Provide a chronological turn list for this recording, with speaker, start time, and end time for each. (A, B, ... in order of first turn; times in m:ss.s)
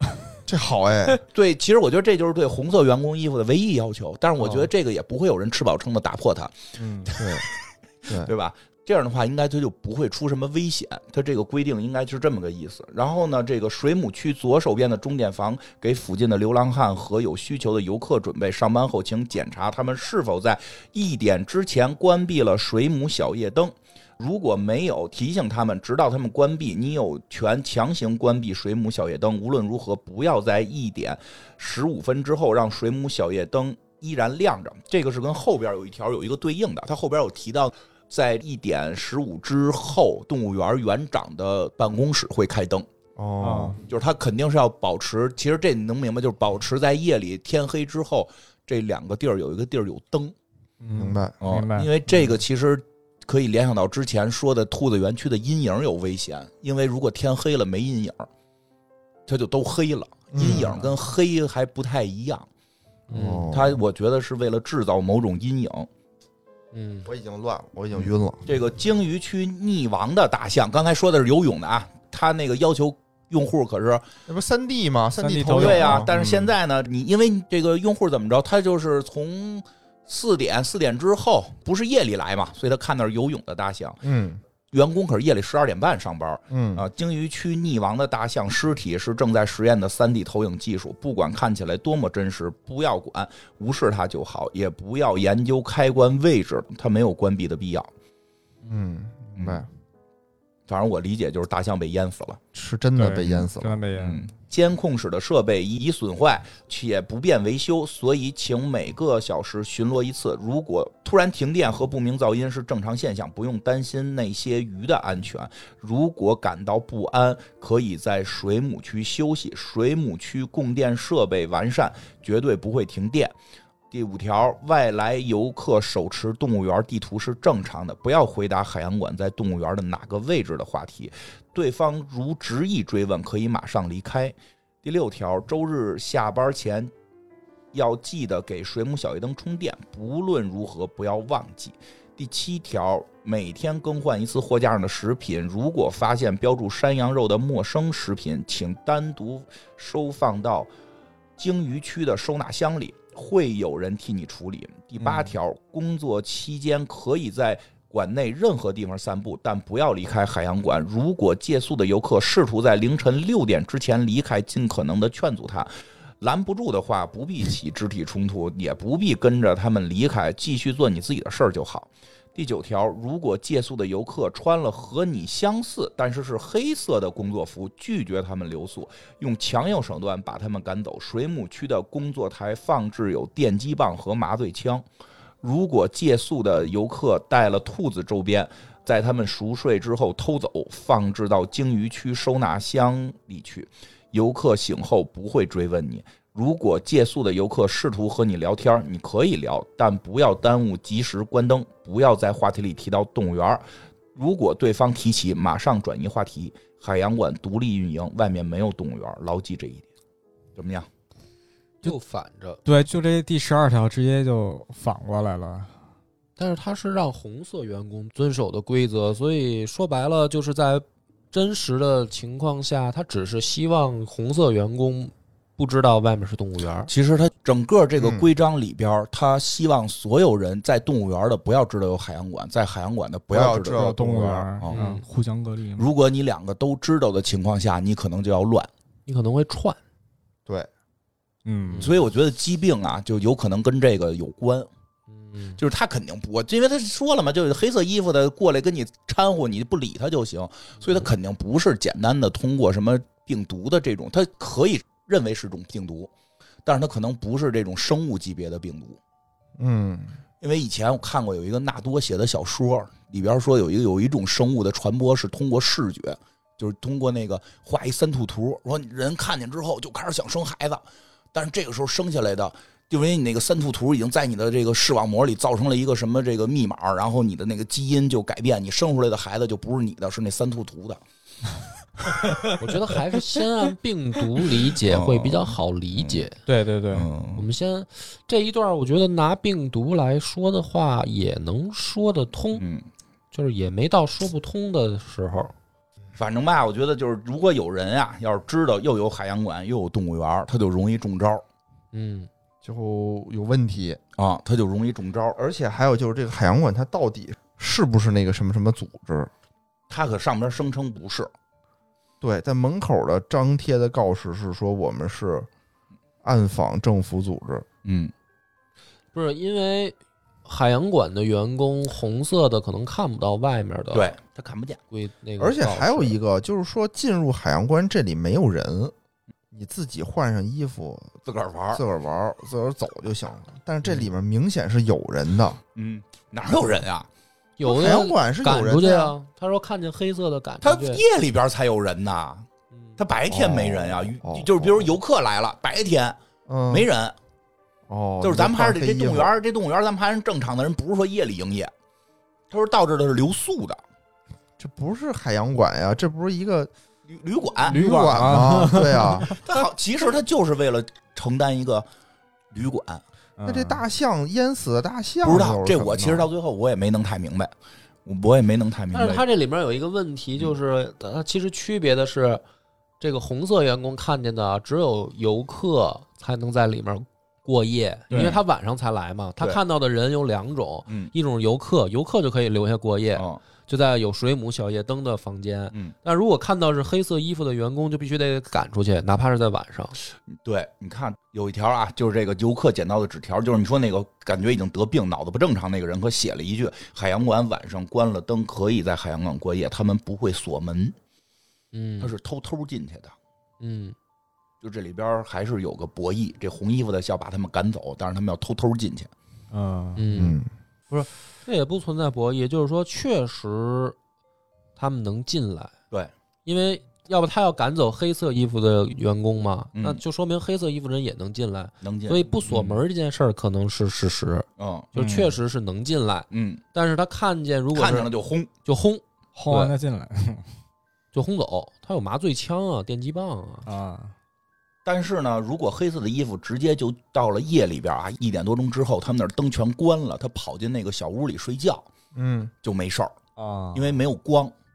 0:00.5-0:01.2 A
0:01.3-0:06.5 B
0:06.8-0:07.1 C
0:07.1-0:07.5 A
0:08.1-0:08.3 A
0:08.1-0:42.9 B
0:43.2-0:43.8 A
0:43.4-0:43.8 C
0:43.8-0:50.3 B
0:50.8-0:51.9 C
0:51.0-0:51.3 A
0:51.4-0:58.3 B
0:59.3-1:02.5 B
1:00.3-1:00.9 A
1:03.1-1:03.5 D
1:03.1-1:03.8 A
1:03.5-1:05.9 B
1:06.7-1:07.1 D
1:07.0-1:08.4 A
1:08.0-1:14.0 B
1:14.3-1:16.1 A
1:15.2-1:16.5 C
1:15.5-1:24.0 B
1:24.0-1:24.4 A
1:24.7-1:37.9 B
1:26.5-1:26.8 A
1:38.6-1:39.7 A
1:39.4-1:39.6 B
1:40.7-1:42.4 B
1:42.5-1:43.8 A
1:43.0-1:44.2 C
1:44.0-2:03.3 B
2:03.9-2:16.9 B
2:17.7-2:30.7 B
2:31.4-2:45.7 B
2:35.0-2:35.3 C
2:46.2-3:04.8 B
3:05.4-3:29.8 B
3:30.6-3:30.9 B
3:31.8-3:32.6 D
3:32.6-3:35.8 C
3:36.4-3:46.9 D
3:46.9-3:53.8 B
3:48.0-3:48.3 A
3:53.3-3:54.5 A
3:53.7-3:55.9 C
3:54.7-3:55.0 D
3:55.8-3:58.7 B
3:59.0-3:59.8 D
4:01.4-4:01.9 C
4:01.7-4:02.0 D
4:01.8-4:04.7 B
4:05.1-4:05.6 D
4:05.6-4:16.1 B
4:10.8-4:11.1 D
4:16.6-4:19.0 B
4:19.6-4:20.2 A
4:20.4-4:41.0 B
4:42.2-4:42.5 C
4:42.6-4:46.4 D
4:44.8-4:46.2 B
4:46.4-4:47.1 C
4:46.9-4:47.5 B
4:47.4-4:52.6 D
4:52.6-4:52.8 B
4:53.3-4:55.5 D
4:56.2-5:01.4 B
5:01.9-5:02.3 D
5:02.6-5:04.0 A
5:04.2-5:05.4 B
5:05.4-5:09.3 A
5:09.9-5:11.3 B
5:12.2-5:15.5 A
5:16.2-5:17.6 A
5:17.8-5:18.1 B
5:19.1-5:24.1 D
5:23.9-5:24.8 B
5:24.9-5:26.2 D
5:25.4-5:28.9 A
5:29.5-5:31.1 A
5:31.2-5:31.8 B
5:31.7-5:35.6 A
5:35.7-5:37.1 B
5:37.6-5:41.0 D
5:37.6-5:39.1 A
5:40.6-5:42.5 B
5:43.0-5:46.2 B
5:43.3-5:44.9 A
5:46.5-5:46.9 A
5:46.7-5:47.2 B
5:47.9-5:49.3 A
5:48.2-5:51.7 B
5:52.5-5:53.8 B
5:54.6-5:56.7 A
5:57.1-5:58.4 B
5:57.6-5:59.4 A
5:57.6-5:59.6 C
5:59.2-6:01.8 B
6:02.5-6:03.0 B
6:03.4-6:03.8 C
6:03.4-6:06.3 A
6:05.2-6:07.5 B
6:08.0-6:09.2 B
6:08.9-6:12.4 D
6:13.0-6:30.0 D
6:18.1-6:18.4 C
6:18.1-6:18.4 B
6:23.1-6:23.4 B
6:30.3-6:40.9 B
6:41.7-6:42.1 D
6:42.0-6:43.1 B
6:43.6-6:43.9 D
6:44.6-6:49.1 B
6:49.5-6:50.0 C
6:50.0-6:54.0 D
6:50.1-6:50.5 A
6:54.8-6:55.7 D
6:56.4-7:08.1 D
6:59.7-7:00.0 B
7:01.8-7:02.8 B
7:04.6-7:04.9 B
7:05.0-7:05.3 C
7:06.3-7:06.6 B
7:07.7-7:08.5 B
7:08.6-7:09.0 D
7:09.3-7:10.5 C
7:11.1-7:13.7 D
7:13.6-7:14.1 C
7:14.8-7:21.9 B
7:22.1-7:22.5 A
7:22.6-7:23.2 B
7:23.4-7:23.8 C
7:23.7-7:24.5 B